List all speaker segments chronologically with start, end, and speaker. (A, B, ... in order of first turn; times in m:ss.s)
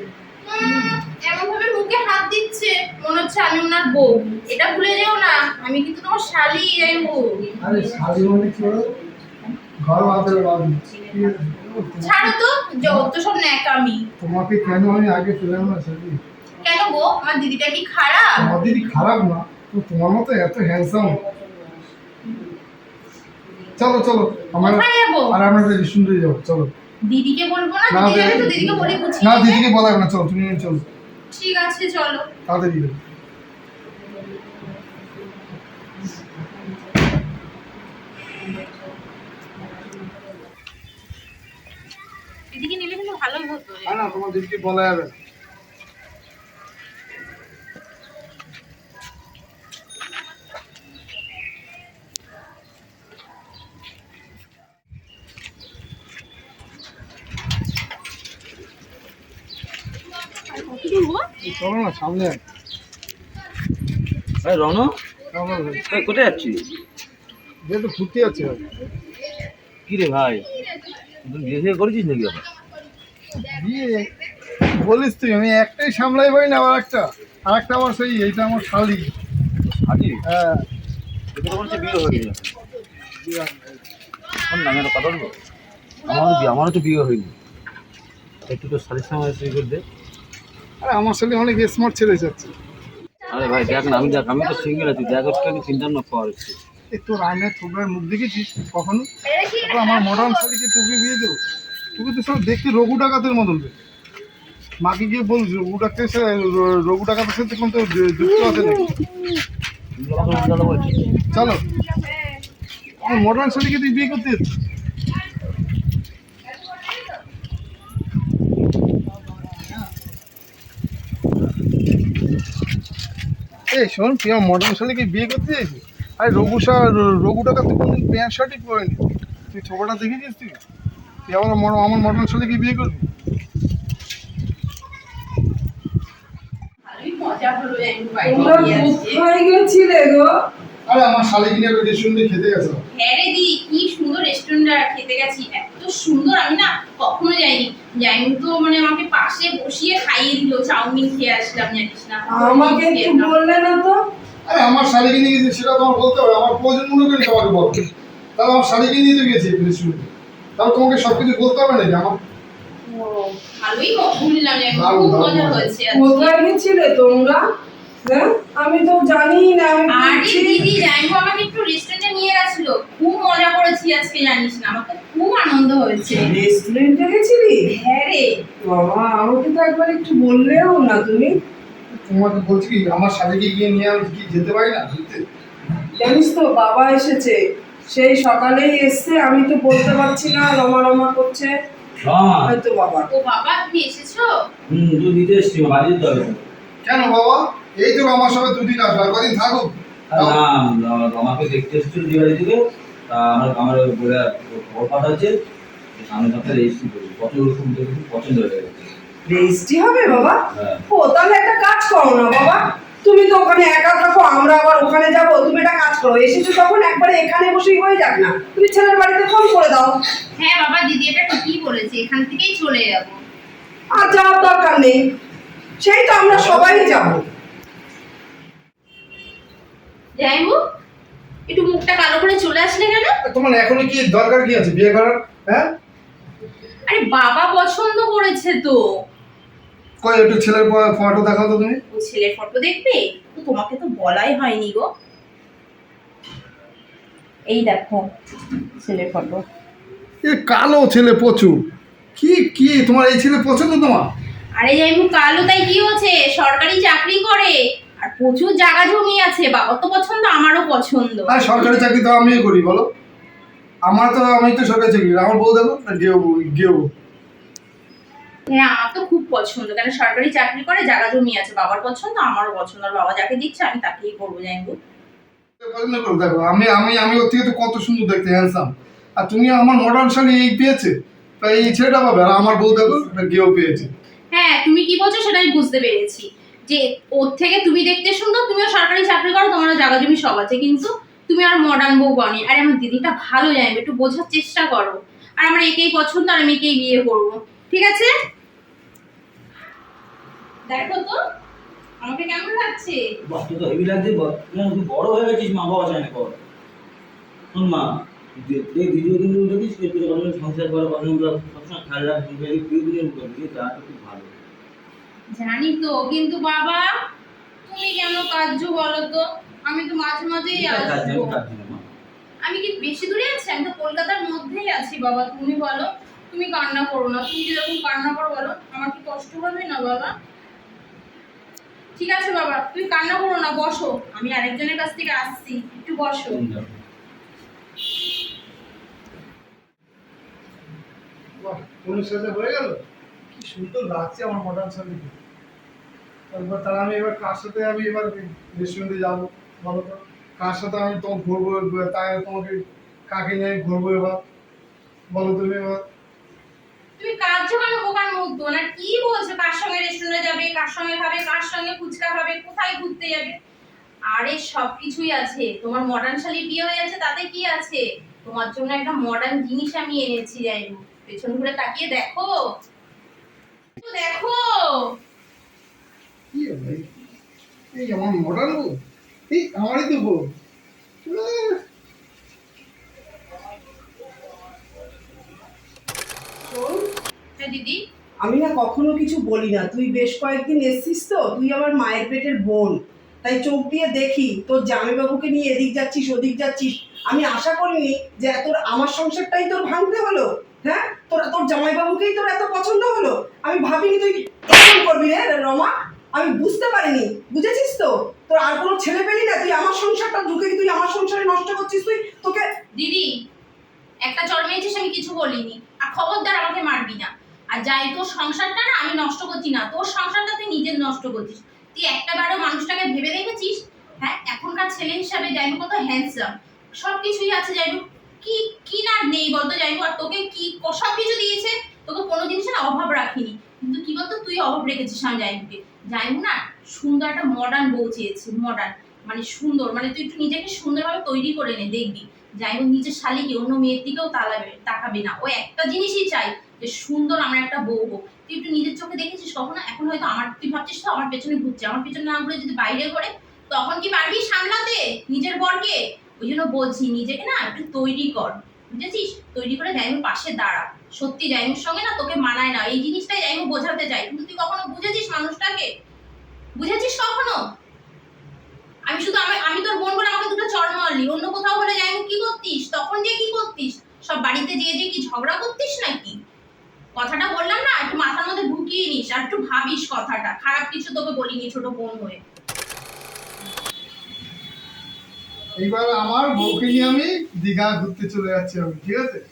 0:00.5-0:07.4 A
0:07.6-0:09.0 B
0:09.8-0:13.1 B
0:12.0-0:14.1 A
0:14.2-0:16.2 B
0:16.6-0:18.5 A
0:18.4-0:21.2 B
0:23.8-0:26.7 B
0:24.6-0:25.4 A
0:27.1-0:29.6 A
0:27.9-0:30.8 B
0:31.3-0:32.3 A
0:32.4-0:33.0 B
0:42.5-0:44.1 A
0:43.8-0:45.2 B
1:00.5-1:01.3 A
1:01.4-1:02.4 B
1:04.4-1:05.0 C
1:05.3-1:05.9 B
1:05.9-1:06.7 C
1:07.6-1:08.6 B
1:09.9-1:10.5 C
1:11.2-1:12.4 C
1:13.4-1:14.1 B
1:14.7-1:19.1 B
1:19.7-1:20.2 C
1:20.2-1:20.7 B
1:21.3-1:22.5 C
1:23.2-1:23.7 B
1:24.5-1:25.3 C
1:26.0-1:27.3 C
1:28.5-1:29.8 C
1:30.8-1:32.5 B
1:33.3-1:36.6 C
1:36.9-1:39.1 B
1:39.3-1:40.4 A
1:39.6-1:41.3 B
1:42.0-1:43.7 B
1:44.8-1:48.9 B
1:50.0-1:51.0 C
1:51.3-1:51.6 B
1:53.0-1:54.5 B
1:59.4-1:59.8 B
2:03.7-2:10.6 B
2:11.3-2:13.1 B
2:16.8-2:19.2 A
2:18.2-2:20.3 D
2:20.9-2:22.8 B
2:22.9-2:33.3 A
2:32.3-2:34.0 D
2:34.5-2:42.2 B
2:42.9-2:43.4 D
2:43.6-2:46.3 A
2:44.7-2:45.7 B
2:45.9-2:47.4 D
2:48.0-2:50.7 D
2:49.9-2:56.3 A
2:56.1-2:57.7 D
2:57.7-2:58.4 A
2:58.6-3:01.3 D
3:02.0-3:05.2 B
3:06.0-3:07.4 D
3:07.9-3:11.5 D
3:12.0-3:12.5 C
3:12.4-3:13.1 D
3:13.1-3:14.3 A
3:14.7-3:16.4 C
3:16.8-3:20.4 B
3:20.1-3:25.3 C
3:26.0-3:28.9 C
3:29.3-3:40.0 D
3:30.5-3:30.8 C
3:40.4-3:43.2 A
3:43.9-3:45.0 D
3:45.8-3:47.2 D
3:46.3-3:47.0 B
3:50.2-3:50.6 A
3:51.5-3:53.1 A
3:53.2-3:55.7 B
3:56.9-3:58.8 A
4:00.0-4:01.8 B
4:01.9-4:04.9 A
4:07.5-4:08.1 A
4:08.8-4:09.4 A
4:10.2-4:11.6 B
4:12.2-4:14.1 B
4:14.6-4:21.8 A
4:21.3-4:22.9 B
4:23.9-4:26.9 B
4:28.5-4:34.8 A
4:35.6-4:43.9 B
4:44.3-4:58.1 A
5:00.7-5:01.2 A
5:02.0-5:03.0 A
5:03.3-5:06.4 C
5:07.5-5:14.4 C
5:15.3-5:16.9 A
5:17.6-5:21.3 A
5:20.5-5:21.8 C
5:22.4-5:30.1 A
5:32.0-5:36.4 A
5:36.3-5:36.7 C
5:41.4-5:42.8 B
5:43.3-5:45.1 B
5:46.3-5:54.2 B
5:55.1-5:55.8 B
5:57.0-6:03.4 A
6:04.1-6:12.4 A
6:13.8-6:14.9 A
6:16.3-6:16.9 B
6:17.7-6:18.8 B
6:19.3-6:20.3 B
6:21.0-6:21.6 B
6:26.4-6:26.9 D
6:27.4-6:27.8 A
6:28.2-6:52.4 D
6:52.8-6:53.1 A
6:54.0-7:45.7 A
7:46.6-7:47.4 A
7:48.9-7:56.2 A
7:57.0-8:02.2 A
8:05.6-8:09.2 B
8:06.3-8:07.0 A